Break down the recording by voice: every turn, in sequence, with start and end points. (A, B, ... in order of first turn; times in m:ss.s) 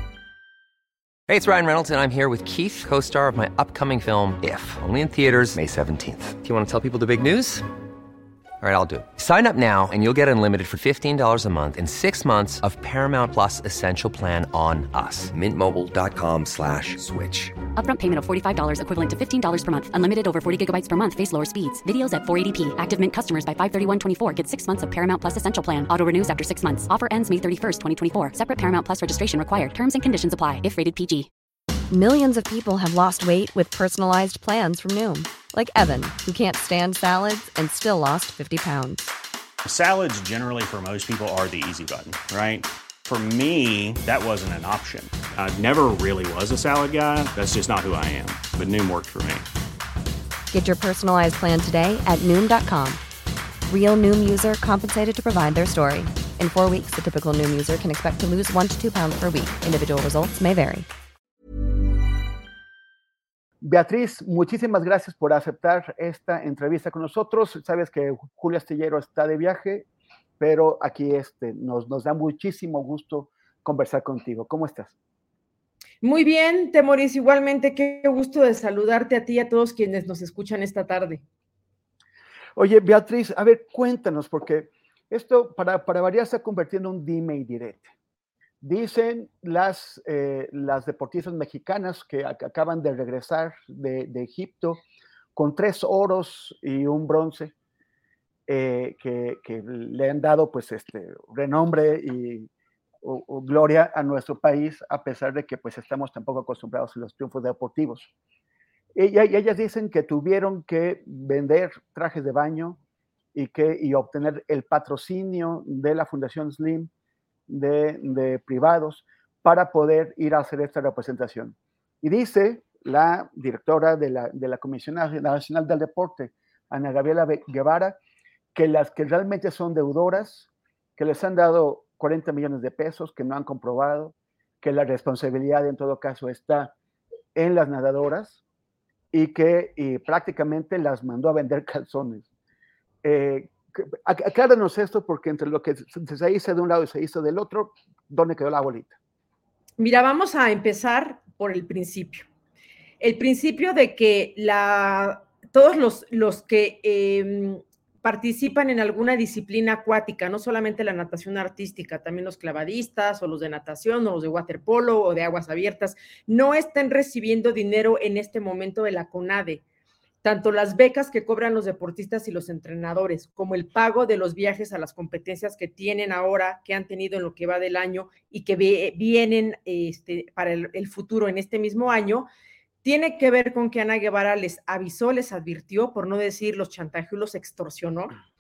0:01.3-0:07.7 A
0:08.6-0:17.6 A
0:17.8-0:31.3 B
0:31.9-0:39.1 C
0:39.6-0:49.5 D
0:50.5-0:53.0 C
0:53.7-1:00.9 C
1:03.6-1:09.9 E
1:10.4-1:14.9 E
1:16.0-1:21.2 F
1:22.6-1:27.9 E
1:28.6-1:34.8 E
1:35.4-1:37.5 E
1:38.5-1:42.5 E
1:43.0-1:48.1 E
1:49.0-1:52.8 E
1:53.4-1:56.9 E
1:57.5-2:08.0 E
2:08.6-2:16.7 E
2:17.4-2:18.4 E
2:19.1-2:22.2 E
2:23.0-2:29.0 E
2:29.8-2:32.3 F
2:33.0-2:49.6 F
2:50.2-3:02.3 F
3:02.8-3:08.2 F